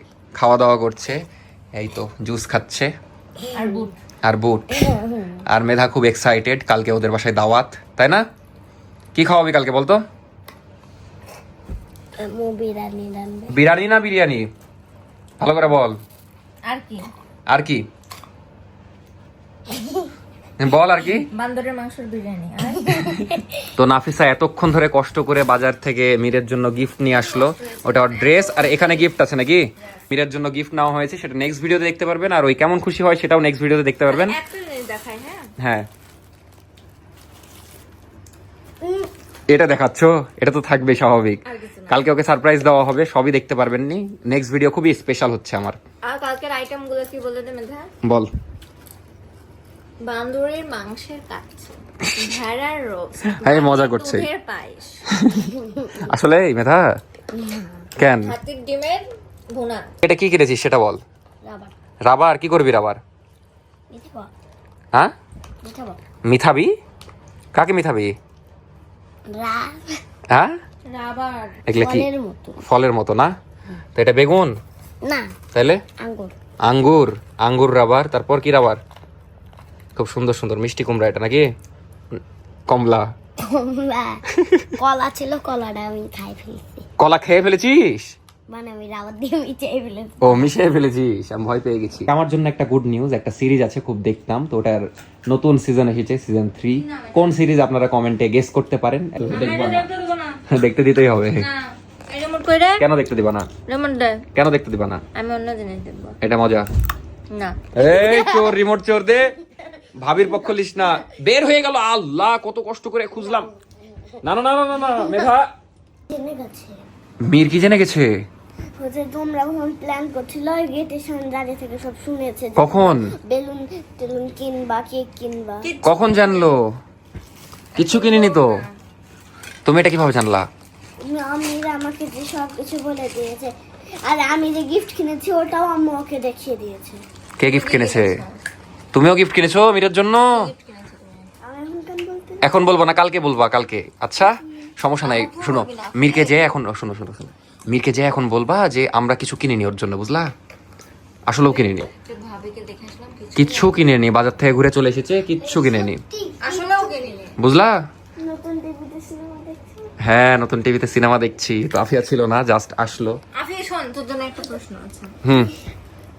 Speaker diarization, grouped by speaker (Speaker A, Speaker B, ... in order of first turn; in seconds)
Speaker A: 0.4-1.2, 1.8-2.9, 4.2-4.9, 5.5-8.2, 9.1-10.0, 13.5-14.5, 15.4-16.0, 17.5-17.9, 20.6-21.3, 23.8-34.4, 35.6-35.9, 39.5-45.8, 48.0-48.3, 52.0-52.4, 53.3-54.3, 55.1-56.9, 58.0-58.3, 60.0-61.0, 62.0-63.0, 66.3-66.7, 67.5-68.1, 71.7-72.1, 72.6-73.3, 74.0-74.5, 75.5-75.8, 76.7-78.8, 80.0-81.5, 82.1-83.1, 87.0-88.1, 90.2-99.9, 100.5-101.5, 102.8-103.5, 104.3-105.0, 106.2-106.7, 107.7-109.3, 110.0-113.5, 114.2-115.5, 117.2-118.1, 122.5-123.1, 125.8-126.7, 127.8-128.6, 129.6-130.5, 137.4-138.1, 138.9-140.3, 142.4-150.3, 151.3-151.9, 153.3-156.0, 157.4-157.8, 160.0-163.2, 165.2-165.5
Speaker B: 3.4-3.8, 4.7-5.4, 12.2-13.5, 19.7-20.1, 22.8-23.6, 38.8-39.1, 55.5-56.0, 57.3-57.9, 61.4-61.7, 63.9-64.3, 65.6-66.0, 69.3-69.9, 71.8-72.6, 75.0-75.3, 76.0-76.3, 83.4-84.2, 84.8-86.8, 88.5-90.5, 113.2-113.5, 115.0-115.2, 116.1-116.8, 118.8-125.7, 131.0-137.0, 141.4-142.6, 155.4-156.9, 158.2-159.9
Speaker C: 3.5-3.9, 16.6-17.1, 21.2-23.2, 27.3-28.9, 34.0-35.5, 41.5-42.0, 46.0-47.9, 50.0-55.0, 58.2-59.9, 70.9-71.5, 96.7-97.5, 99.2-100.4, 101.3-102.8, 103.7-104.2, 105.1-106.2, 107.3-107.6, 125.6-126.5, 127.7-128.7, 137.4-138.4, 140.3-141.3, 145.0-146.3, 151.4-153.8, 156.4-157.3, 163.3-165.1